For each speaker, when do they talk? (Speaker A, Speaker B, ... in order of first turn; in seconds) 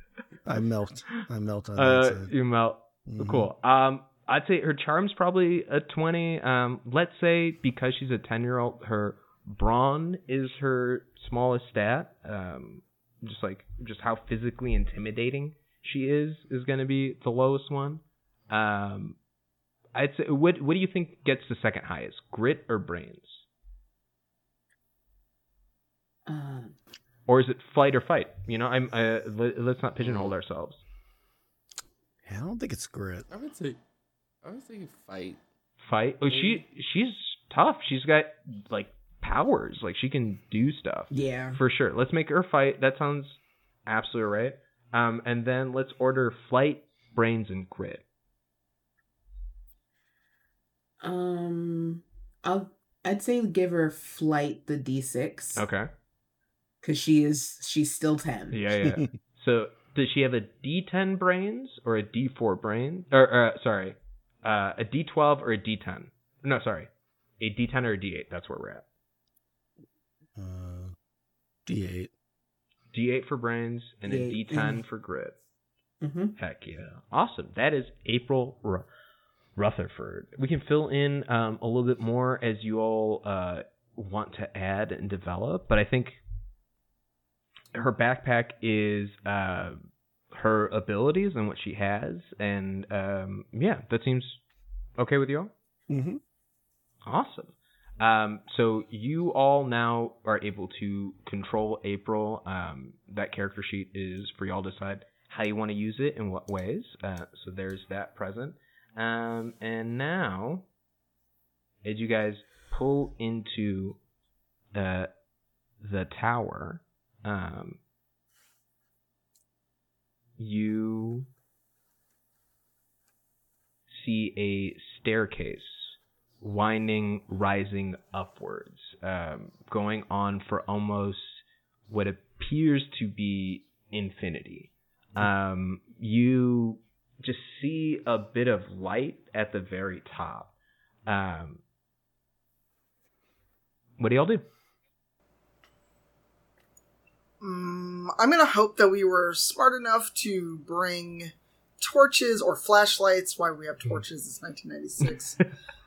Speaker A: 0.5-2.3, 3.0-3.5, 32.2-33.3, 70.4-70.9, 71.7-72.1, 95.9-96.2
Speaker B: 1.8-19.1, 19.9-23.4, 27.3-30.8, 35.8-48.0, 55.5-55.9, 58.5-66.9, 67.4-68.8, 72.9-75.3, 76.4-78.9, 79.6-86.2, 87.7-89.8, 90.3-94.4, 95.0-95.5, 97.0-110.7, 111.8-114.0, 114.7-115.1, 115.8-117.8, 120.4-121.3, 123.9-140.5, 141.1-141.6, 144.0-144.4
Speaker C: 26.3-26.8, 41.1-41.6, 51.0-55.6, 56.8-58.7, 74.0-74.8, 76.0-76.4
Speaker D: 30.0-30.3, 33.3-33.8, 34.4-35.4, 36.3-36.6
Speaker E: 147.4-155.4